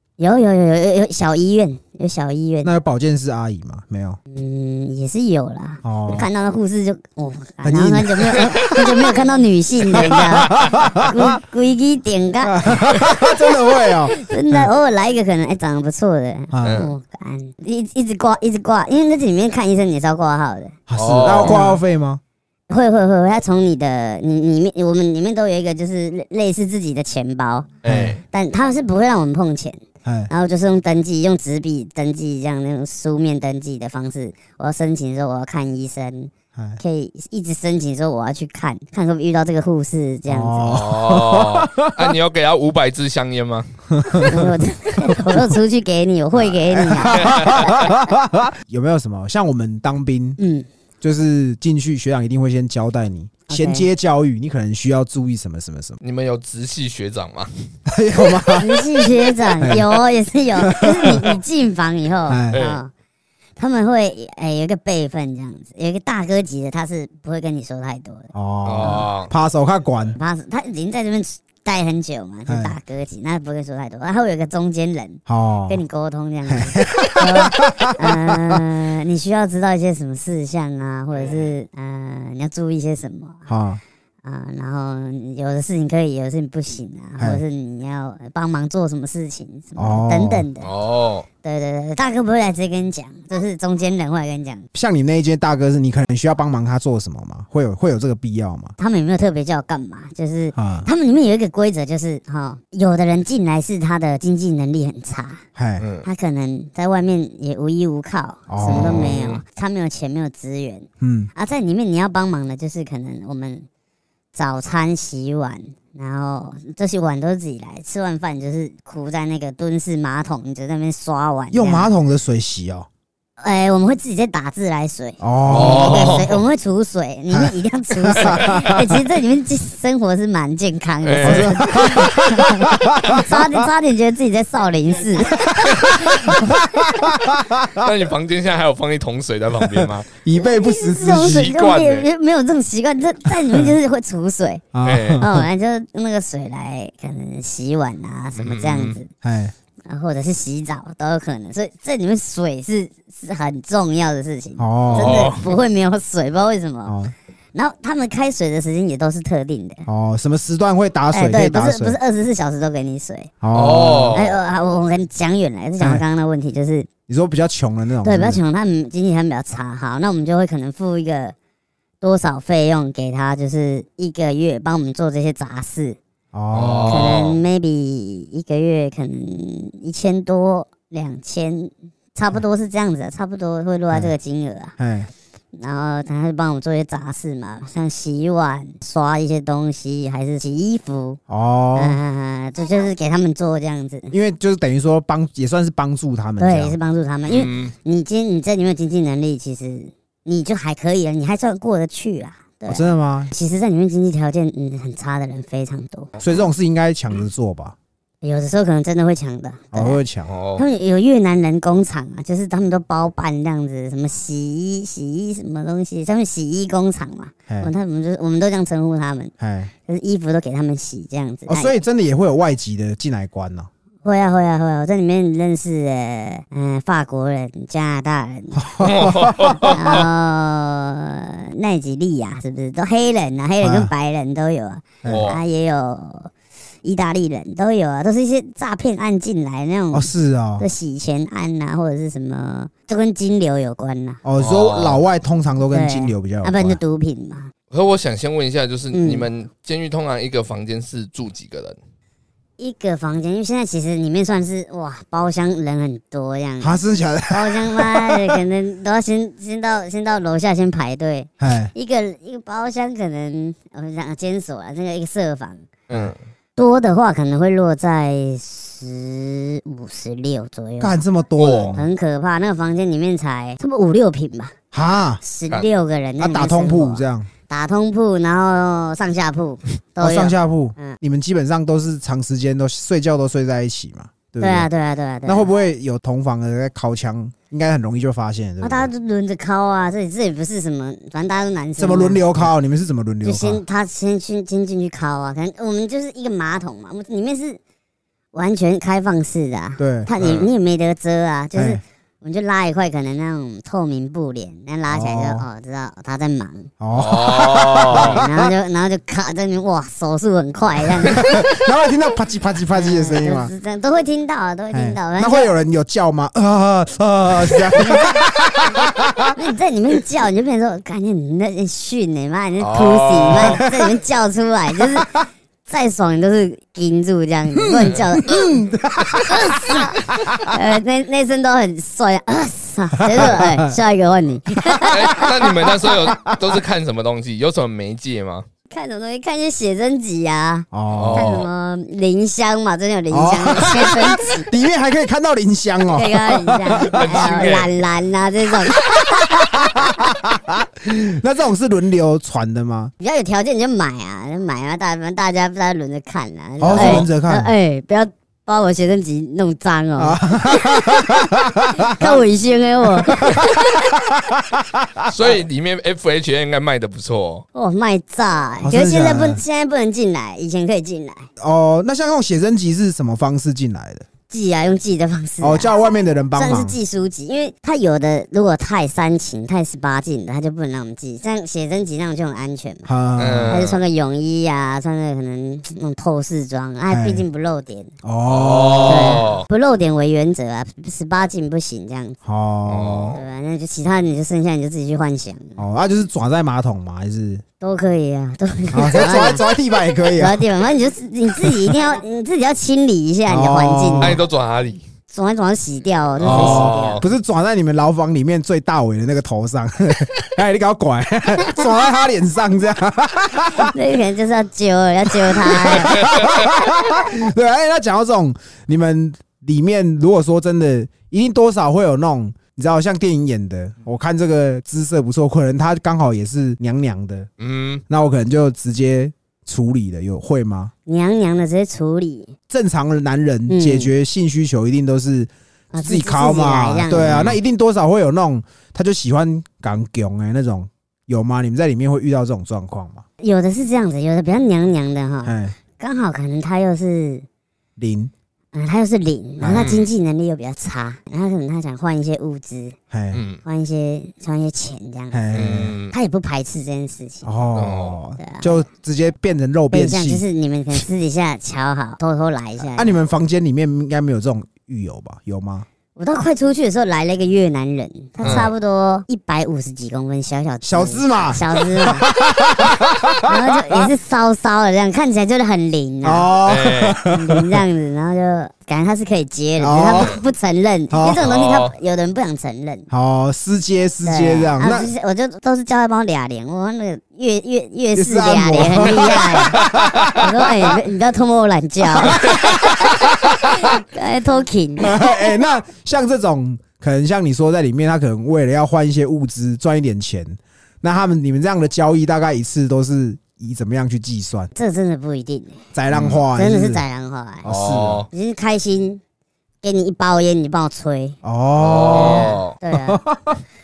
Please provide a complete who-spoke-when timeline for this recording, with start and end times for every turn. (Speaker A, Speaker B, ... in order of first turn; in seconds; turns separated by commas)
Speaker A: 0.2-2.7, Speaker B: 2.6-4.2, Speaker A: 4.3-13.3, Speaker B: 5.8-6.3, Speaker B: 7.6-9.1, Speaker B: 9.9-11.3, Speaker B: 12.4-14.7, Speaker A: 14.1-20.8, Speaker B: 16.5-16.9, Speaker C: 16.6-16.9, Speaker B: 20.9-22.2, Speaker C: 20.9-21.6, Speaker A: 21.4-21.8, Speaker A: 22.7-27.7, Speaker C: 27.8-28.2, Speaker B: 27.8-28.2, Speaker A: 28.3-40.7, Speaker B: 30.0-30.3, Speaker B: 36.5-36.8, Speaker B: 40.3-42.1, Speaker C: 40.6-43.7, Speaker B: 43.9-44.5, Speaker A: 44.2-47.8, Speaker B: 46.7-50.4, Speaker C: 47.1-47.7, Speaker A: 50.4-50.6, Speaker B: 51.0-56.0, Speaker A: 53.5-53.9, Speaker C: 56.0-57.5, Speaker B: 57.9-58.8, Speaker A: 58.6-62.9, Speaker B: 59.6-59.9, Speaker B: 60.6-61.2, Speaker B: 62.3-62.6, Speaker C: 62.5-62.8, Speaker A: 63.6-68.3, Speaker B: 68.3-70.2, Speaker C: 68.6-69.3, Speaker A: 70.2-83.5, Speaker B: 72.5-72.8, Speaker B: 75.3-75.8, Speaker B: 76.5-78.6, Speaker B: 83.5-83.8, Speaker A: 84.2-90.7, Speaker B: 89.8-90.5, Speaker C: 90.6-91.3, Speaker A: 91.4-94.7, Speaker B: 94.7-98.7, Speaker A: 98.8-105.4, Speaker B: 100.5-100.9, Speaker B: 105.5-105.8, Speaker C: 105.8-106.0, Speaker A: 106.0-113.7, Speaker B: 108.5-109.2, Speaker C: 108.6-109.4, Speaker B: 111.0-111.3, Speaker A: 114.3-121.9, Speaker B: 121.5-122.9, Speaker A: 123.4-135.5, Speaker B: 125.2-126.3, Speaker C: 125.5-126.4, Speaker B: 127.3-128.8, Speaker C: 128.2-128.7, Speaker C: 131.0-131.9, Speaker B: 131.2-133.6, Speaker B: 135.3-137.9, Speaker C: 137.6-140.1, Speaker B: 139.6-141.5, Speaker A: 140.3-144.6, Speaker C: 141.0-142.1, Speaker B: 144.7-145.4, Speaker C: 144.8-145.2, Speaker A: 145.2-149.1, Speaker C: 148.4-149.0, Speaker B: 149.2-149.5, Speaker A: 149.8-156.9, Speaker B: 154.6-155.3, Speaker C: 154.9-155.5, Speaker B: 156.8-157.1, Speaker A: 157.5-159.8, Speaker B: 159.8-162.0, Speaker A: 161.1-163.3, Speaker B: 163.4-164.2, Speaker C: 163.5-164.3, Speaker A: 164.1-166.9, Speaker B: 167.1-168.4, Speaker A: 168.0-171.3, Speaker A: 172.0-176.0, Speaker B: 176.3-177.2, Speaker C: 176.5-177.4, Speaker A: 176.9-184.8, Speaker B: 184.8-185.1, Speaker A: 185.5-191.2, Speaker B: 191.3-192.0, Speaker A: 191.8-194.1, Speaker B: 194.1-196.8, Speaker A: 196.4-206.1, Speaker C: 197.3-197.7, Speaker B: 202.7-203.3, Speaker B: 206.2-207.7, Speaker A: 208.2-210.0, Speaker B: 209.7-210.3, Speaker C: 210.3-210.6, Speaker A: 210.6-219.3, Speaker B: 219.4-219.7, Speaker A: 219.8-221.7, Speaker B: 221.5-223.7, Speaker A: 224.0-228.7, Speaker B: 228.5-230.0, Speaker C: 228.8-230.1, Speaker A: 229.6-236.3, Speaker B: 233.6-233.9, Speaker B: 235.0-235.3, Speaker C: 235.0-235.4, Speaker A: 236.8-244.2, Speaker B: 239.9-240.7, Speaker B: 244.2-246.8, Speaker C: 244.4-245.0, Speaker A: 245.7-247.5, Speaker C: 247.7-251.8, Speaker A: 248.9-249.3, Speaker A: 252.6-265.6, Speaker B: 256.6-258.4, Speaker B: 261.4-261.7, Speaker C: 265.9-266.1, Speaker A: 266.6-271.0, Speaker B: 270.8-271.9, Speaker C: 271.4-271.8, Speaker A: 271.7-274.5, Speaker B: 274.7-275.2, Speaker A: 275.2-281.0, Speaker B: 276.2-277.3, Speaker B: 280.0-284.7, Speaker A: 284.4-285.5, Speaker B: 285.2-288.9, Speaker A: 288.6-292.5, Speaker B: 291.8-293.6, Speaker A: 293.2-297.6, Speaker A: 298.3-306.7, Speaker B: 299.8-300.1, Speaker C: 300.2-300.5, Speaker B: 301.6-301.8, Speaker B: 304.9-305.4, Speaker B: 306.8-308.5, Speaker C: 306.9-308.2, Speaker A: 307.9-311.4, Speaker B: 311.1-313.5, Speaker A: 312.7-315.5, Speaker B: 314.7-319.3, Speaker A: 317.7-318.3, Speaker A: 319.3-325.1, Speaker C: 322.6-323.6, Speaker B: 323.4-323.7, Speaker A: 325.7-328.5, Speaker B: 327.7-330.5, Speaker A: 329.2-335.3, Speaker B: 333.1-333.7, Speaker B: 334.7-336.6, Speaker C: 334.9-338.4, Speaker A: 338.7-344.5, Speaker B: 340.7-341.4, Speaker C: 340.9-341.5, Speaker B: 343.1-347.2, Speaker A: 345.9-349.9, Speaker C: 346.9-347.7, Speaker B: 349.1-352.9, Speaker A: 353.0-361.1, Speaker B: 356.6-357.5, Speaker C: 356.7-357.0, Speaker B: 360.0-362.1, Speaker A: 361.8-363.7, Speaker B: 363.0-365.1, Speaker C: 365.1-367.4, Speaker A: 367.5-371.3, Speaker B: 368.6-369.4, Speaker B: 371.4-374.1, Speaker A: 374.3-375.7, Speaker B: 375.4-376.8, Speaker A: 376.3-382.9, Speaker B: 382.9-383.6, Speaker C: 383.2-383.8, Speaker A: 383.5-387.9, Speaker B: 386.9-387.2, Speaker B: 388.0-389.2, Speaker C: 388.3-389.4, Speaker A: 388.8-392.2, Speaker B: 392.2-393.2, Speaker C: 392.7-393.2, Speaker A: 393.1-395.6, Speaker B: 395.6-397.4, Speaker A: 397.6-399.4, Speaker B: 398.7-400.4, Speaker A: 400.1-404.1, Speaker B: 401.4-401.7, Speaker B: 403.3-404.2, Speaker C: 404.0-404.8, Speaker A: 405.1-407.0, Speaker C: 406.2-407.1, Speaker B: 406.2-413.7, Speaker A: 413.6-416.0, Speaker B: 415.1-427.3, Speaker C: 416.0-416.3, Speaker C: 427.4-427.8, Speaker B: 427.9-430.7, Speaker A: 430.9-432.3, Speaker B: 432.5-443.0, Speaker A: 433.5-433.9, Speaker A: 435.7-437.2, Speaker C: 436.9-437.4, Speaker A: 443.2-447.2, Speaker B: 445.2-445.6, Speaker B: 447.8-448.1, Speaker A: 448.5-452.8, Speaker B: 449.4-449.7, Speaker C: 449.5-449.9, Speaker B: 452.9-453.2, Speaker C: 453.1-453.4, Speaker A: 453.4-455.3, Speaker B: 455.1-455.7, Speaker C: 455.3-455.9, Speaker A: 455.9-457.3, Speaker B: 457.2-460.2, Speaker C: 457.5-458.0, Speaker A: 458.2-458.6, Speaker A: 459.7-462.9, Speaker B: 462.7-465.6, Speaker A: 465.9-472.1, Speaker B: 468.2-468.5, Speaker C: 468.2-468.5, Speaker B: 470.6-473.8, Speaker A: 473.2-476.3, Speaker B: 476.0-477.6, Speaker C: 476.4-477.0, Speaker A: 477.1-482.9, Speaker B: 479.6-480.1, Speaker C: 479.9-480.2, Speaker B: 480.9-481.2, Speaker C: 481.1-481.7, Speaker B: 482.9-484.9, Speaker A: 484.0-489.6, Speaker B: 487.9-490.3, Speaker C: 489.5-490.1, Speaker A: 490.1-495.0, Speaker B: 492.2-493.6, Speaker B: 494.8-504.5, Speaker A: 504.5-505.6, Speaker B: 505.7-506.8, Speaker C: 505.9-506.2, Speaker A: 506.3-507.5, Speaker B: 507.4-508.0, Speaker C: 507.4-508.1, Speaker A: 508.1-509.0, Speaker A: 509.6-511.2, Speaker B: 511.2-513.4, Speaker C: 511.6-512.5, Speaker A: 511.9-513.0